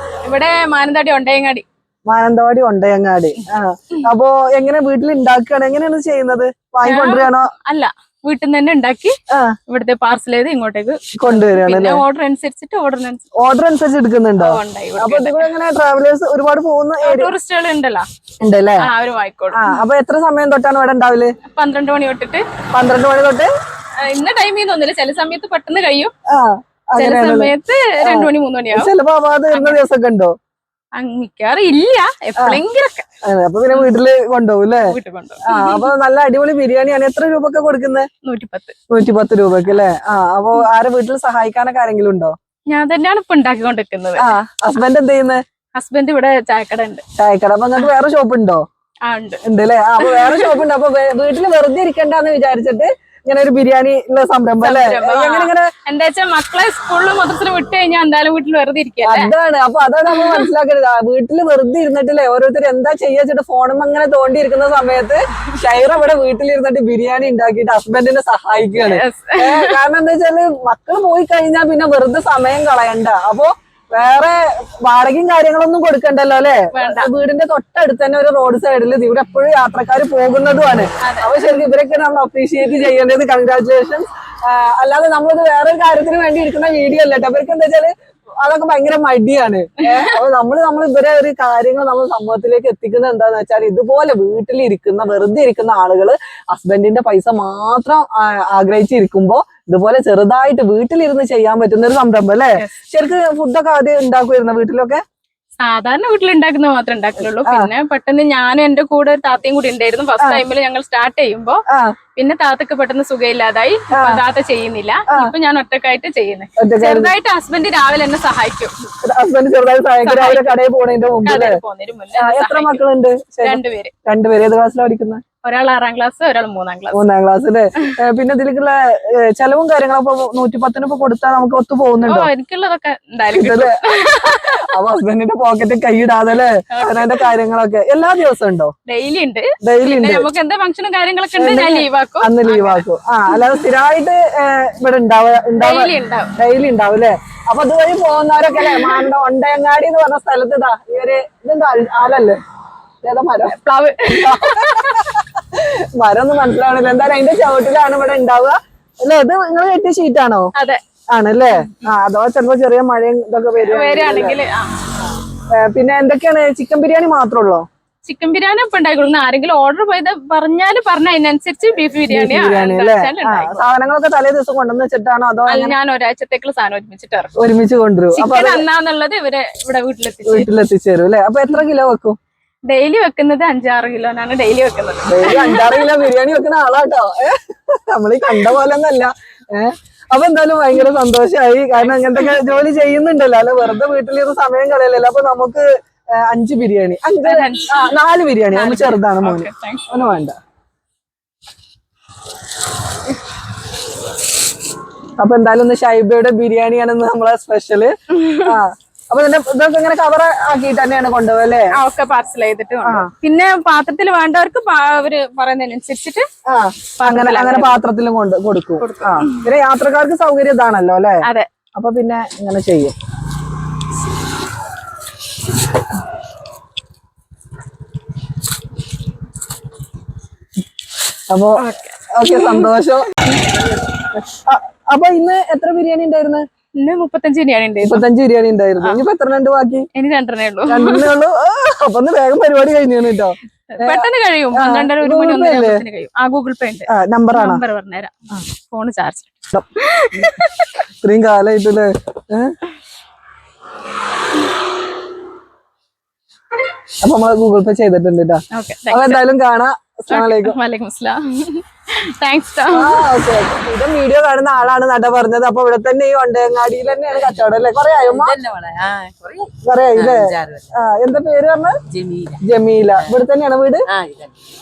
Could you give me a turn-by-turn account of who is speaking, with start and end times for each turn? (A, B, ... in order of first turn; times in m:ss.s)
0:00.2-0:01.6 A
0:02.1-0:07.5 B
0:06.8-0:09.2 A
0:09.3-0:09.6 B
0:09.7-0:13.3 A
0:11.2-0:12.0 B
0:13.4-0:17.3 B
0:14.4-0:15.5 A
0:17.0-0:18.1 A
0:18.4-0:18.9 B
0:18.8-0:19.8 A
0:19.5-0:21.3 B
0:21.5-0:22.5 A
0:22.7-0:23.5 B
0:24.0-0:26.1 A
0:26.3-0:30.3 B
0:27.0-0:28.9 A
0:29.5-0:29.8 A
0:31.0-0:33.0 A
0:33.2-0:38.1 B
0:33.7-0:34.0 A
0:34.8-0:35.9 A
0:38.2-0:38.8 A
0:38.9-0:42.3 B
0:42.7-0:44.3 A
0:44.2-0:45.4 B
0:45.8-0:47.0 A
0:47.2-0:48.6 B
0:49.0-0:49.4 A
0:49.4-0:55.7 B
0:50.0-0:50.6 A
0:54.6-0:59.3 A
0:59.0-1:45.0 B
1:00.1-1:00.5 A
1:08.8-1:09.8 A
1:16.7-1:17.1 A
1:21.0-1:21.7 A
1:29.8-1:30.2 A
1:42.6-1:42.9 A
1:45.6-1:51.6 A
1:47.4-1:47.7 B
1:52.2-1:58.7 A
1:53.9-1:54.2 B
1:56.6-1:57.1 B
1:59.0-2:01.6 B
2:00.0-2:00.6 A
2:01.2-2:02.8 A
2:02.1-2:05.2 B
2:03.4-2:03.9 A
2:05.4-2:07.0 A
2:06.9-2:12.3 B
2:12.0-2:14.8 A
2:13.3-2:18.7 B
2:16.7-2:17.3 A
2:18.8-2:23.6 A
2:19.6-2:20.3 B
2:21.4-2:32.4 B
2:25.6-2:26.3 A
2:28.6-2:29.0 A
2:33.0-2:33.6 B
2:33.5-2:35.1 A
2:34.1-2:40.5 B
2:40.6-2:40.8 A
2:41.1-2:44.4 B
2:43.7-2:44.8 A
2:45.5-2:47.6 B
2:48.0-2:53.6 A
2:52.1-2:55.7 B
2:55.5-2:57.4 A
2:57.4-2:58.6 B
2:58.1-3:00.5 A
3:00.2-3:02.2 B
3:02.7-3:06.1 A
3:05.1-3:15.6 B
3:11.8-3:12.4 A
3:16.1-3:20.3 B
3:17.2-3:18.0 A
3:18.5-3:19.9 A
3:25.2-3:31.7 B
3:28.1-3:28.6 A
3:31.7-3:36.2 A
3:32.8-3:33.1 B
3:36.5-3:42.9 B
3:37.0-3:37.8 A
3:38.8-3:39.5 A
3:51.3-3:53.4 B
3:51.6-3:52.7 A
3:54.2-3:56.4 B
3:56.8-3:58.0 A
3:57.8-3:59.9 B
3:59.9-4:01.2 A
4:00.7-4:05.8 B
4:03.7-4:10.8 A
4:06.9-4:07.6 B
4:11.0-4:12.6 B
4:17.0-4:20.6 B
4:18.5-4:19.2 A
4:20.1-4:23.1 A
4:22.7-4:28.4 B
4:28.0-4:30.7 C
4:29.6-4:31.8 B
4:31.9-4:32.4 C
4:32.4-4:33.9 B
4:33.9-4:34.4 C